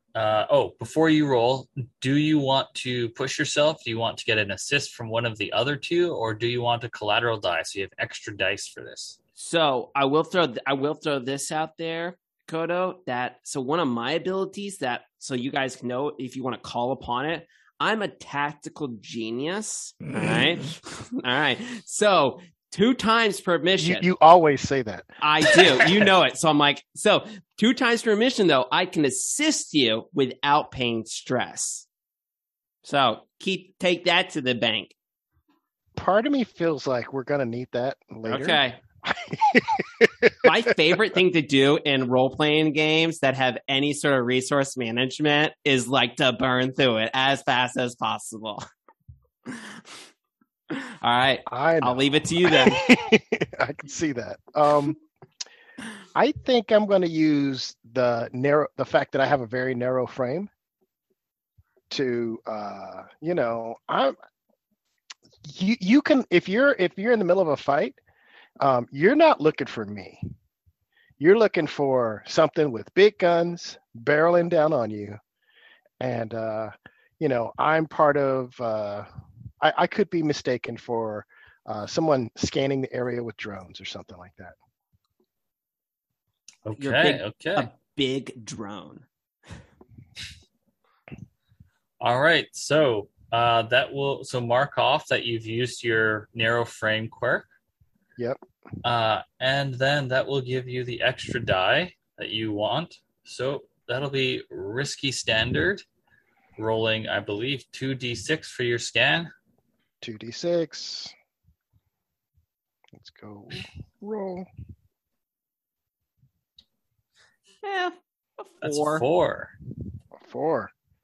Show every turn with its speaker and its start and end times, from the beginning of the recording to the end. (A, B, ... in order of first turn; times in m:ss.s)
0:00.1-0:09.2 A
0:09.4-0:24.0 B
0:23.8-0:26.0 C
0:25.2-0:31.9 B
0:32.8-0:34.9 B
0:36.0-0:40.3 C
0:38.3-0:38.8 B
0:40.4-0:48.6 B
0:49.5-0:49.8 B
0:50.7-0:52.8 B
0:51.5-0:55.0 C
0:56.1-1:00.5 C
1:01.9-1:04.1 C
1:05.5-1:08.0 C
1:08.6-1:10.2 C
1:11.2-1:15.2 C
1:16.0-1:19.0 C
1:19.6-1:24.5 C
1:26.6-1:27.7 A
1:26.8-1:29.0 B
1:32.0-1:37.5 A
1:38.8-1:45.8 A
1:46.6-1:49.3 A
1:50.0-1:51.1 C
1:53.0-1:54.4 C
1:57.6-1:59.0 B
1:58.6-1:59.5 A
2:00.2-2:00.7 C